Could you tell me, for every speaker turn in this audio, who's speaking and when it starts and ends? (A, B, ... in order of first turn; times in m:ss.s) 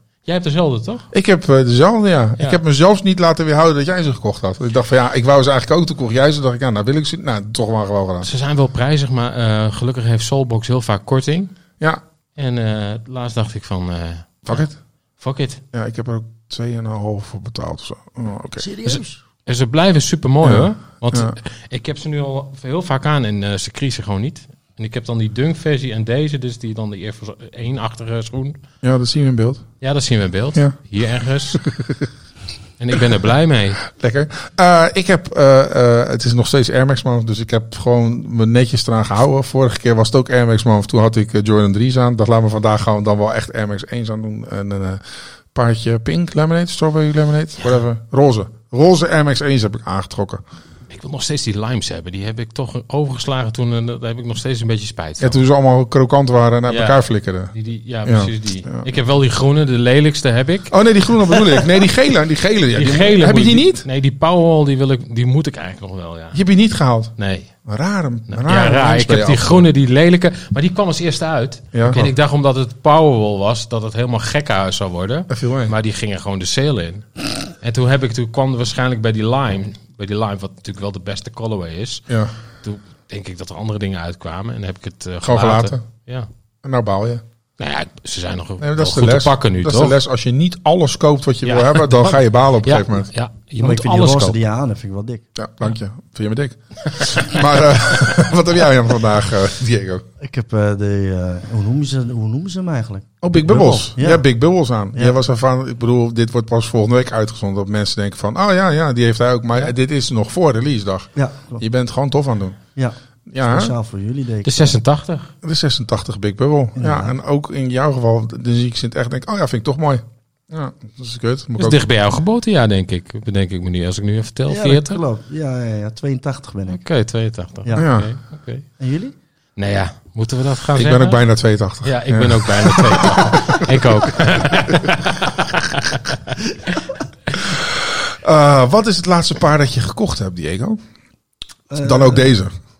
0:00.2-0:01.1 A
0:01.1-0:08.3 B
0:08.2-0:11.5 A
0:12.4-0:14.6 A
0:14.4-0:14.8 B
0:15.2-0:15.6 A
0:15.7-0:19.0 B
0:18.6-0:19.2 C
0:19.4-0:28.6 A
0:20.4-0:21.3 B
0:28.8-0:29.6 B
0:29.8-0:31.6 A
0:31.5-0:32.1 B
0:32.8-0:33.8 A
0:33.8-0:45.0 B
0:45.5-0:50.4 B
0:50.9-0:55.4 A
0:55.2-0:57.5 B
0:56.7-0:57.0 A
0:57.5-1:00.7 A
0:58.0-0:58.8 B
1:00.7-1:03.8 B
1:01.2-1:01.6 A
1:02.7-1:06.4 A
1:06.3-1:09.7 B
1:07.2-1:07.5 A
1:08.3-1:22.0 A
1:11.7-1:12.1 B
1:15.3-1:15.7 B
1:22.6-1:26.3 A
1:25.2-1:25.8 B
1:26.6-1:27.2 B
1:27.6-1:30.0 A
1:28.6-1:33.1 B
1:31.4-1:34.4 A
1:33.6-1:35.2 C
1:35.3-1:40.0 B
1:40.2-1:44.2 C
1:43.2-1:52.6 B
1:51.2-1:51.6 C
1:52.8-1:54.8 C
1:53.3-1:53.7 B
1:54.4-1:55.3 A
1:55.4-2:01.8 B
1:56.8-1:57.1 C
2:01.6-2:05.0 A
2:04.5-2:06.8 C
2:06.7-2:08.6 A
2:07.8-2:08.1 B
2:08.8-2:09.2 C
2:09.6-2:11.2 A
2:10.7-2:14.2 B
2:11.8-2:16.4 A
2:17.5-2:20.8 B
2:21.7-2:22.3 C
2:21.8-2:22.5 B